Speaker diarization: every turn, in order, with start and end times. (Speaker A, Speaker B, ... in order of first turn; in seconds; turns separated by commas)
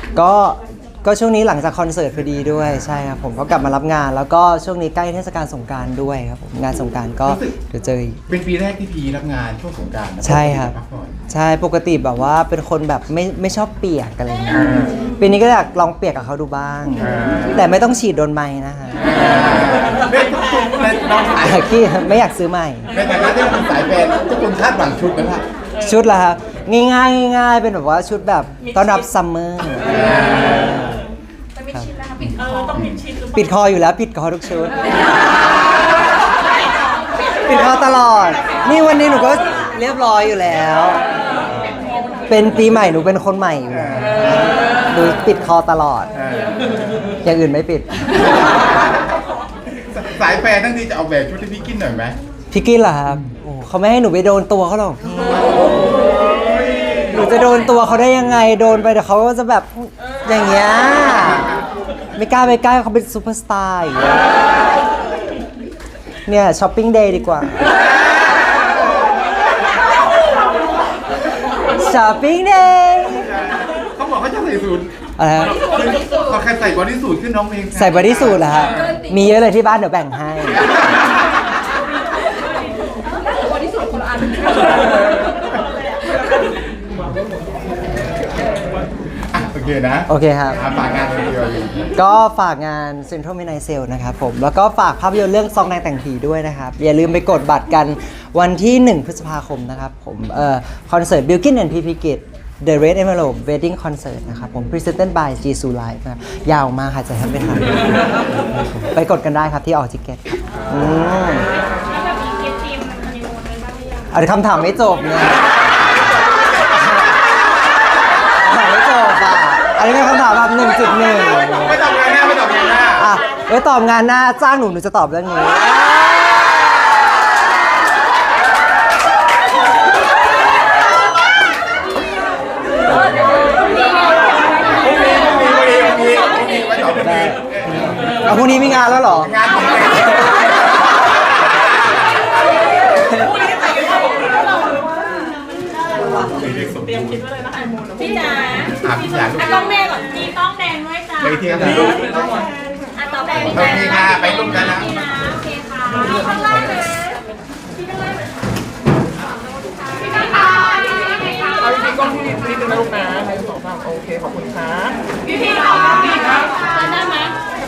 Speaker A: 0.1-8.2, Speaker B: 7.3-7.5, Speaker B: 8.3-11.2, Speaker A: 10.2-10.8, Speaker A: 11.3-19.8, Speaker B: 14.5-15.0, Speaker B: 17.0-17.6, Speaker B: 19.0-21.7, Speaker A: 21.4-23.0, Speaker B: 22.9-25.5, Speaker A: 25.8-31.0, Speaker B: 30.0-30.6, Speaker C: 31.6-32.1, Speaker B: 32.2-33.0, Speaker D: 32.4-33.4, Speaker A: 33.3-35.1, Speaker A: 37.4-41.0, Speaker A: 42.3-46.2, Speaker B: 43.8-44.4, Speaker B: 46.2-47.0, Speaker A: 47.2-48.4, Speaker B: 49.7-52.2, Speaker A: 52.5-55.7, Speaker A: 57.1-61.6, Speaker A: 62.2-64.4, Speaker A: 66.3-67.8, Speaker A: 71.7-73.3, Speaker B: 73.8-79.0, Speaker A: 75.2-75.7, Speaker A: 77.7-80.7, Speaker C: 83.3-84.9, Speaker B: 89.3-92.0, Speaker A: 90.1-90.7, Speaker A: 91.9-111.5, Speaker E: 112.0-113.6, Speaker A: 114.1-115.5, Speaker A: 116.7-117.2, Speaker A: 118.3-121.8, Speaker B: 121.5-123.1, Speaker A: 123.0-126.6, Speaker B: 134.6-138.3, Speaker A: 137.0-139.4, Speaker B: 139.2-140.6, Speaker E: 143.5-144.1, Speaker B: 146.2-147.3, Speaker E: 147.9-148.7, Speaker B: 148.7-149.9, Speaker E: 149.8-151.1, Speaker B: 151.1-152.3, Speaker D: 151.9-152.4, Speaker E: 153.0-153.6, Speaker B: 153.3-155.2, Speaker E: 154.8-155.8, Speaker B: 156.0-156.8, Speaker E: 161.6-161.8, Speaker D: 161.9-165.0